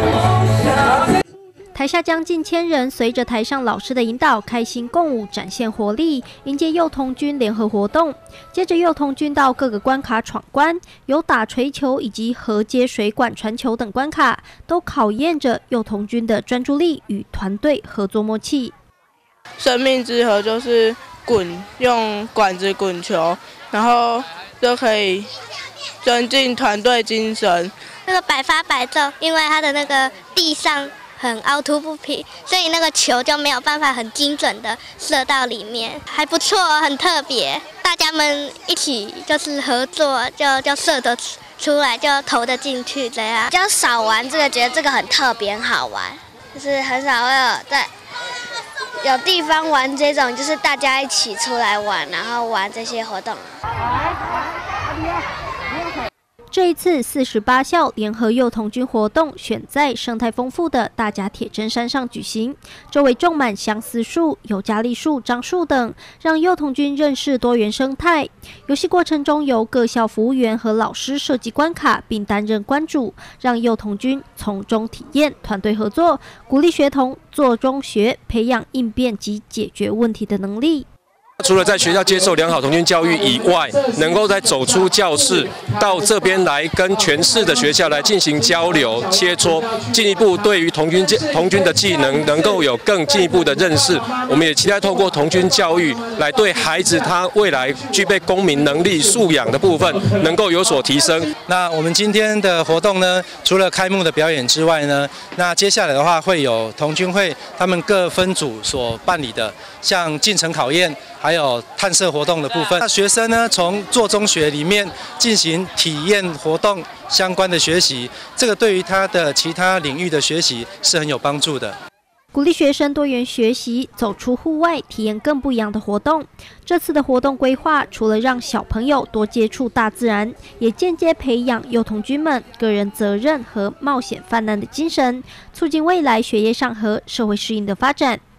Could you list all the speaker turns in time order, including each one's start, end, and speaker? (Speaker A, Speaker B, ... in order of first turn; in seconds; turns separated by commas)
Speaker A: 1.7-18.8, Speaker B: 19.6-25.3, Speaker B: 26.0-27.7, Speaker C: 28.1-43.5, Speaker D: 43.5-47.9, Speaker D: 49.0-53.5, Speaker A: 56.5-80.9, Speaker E: 81.4-101.3, Speaker F: 101.5-121.8, Speaker A: 122.3-138.2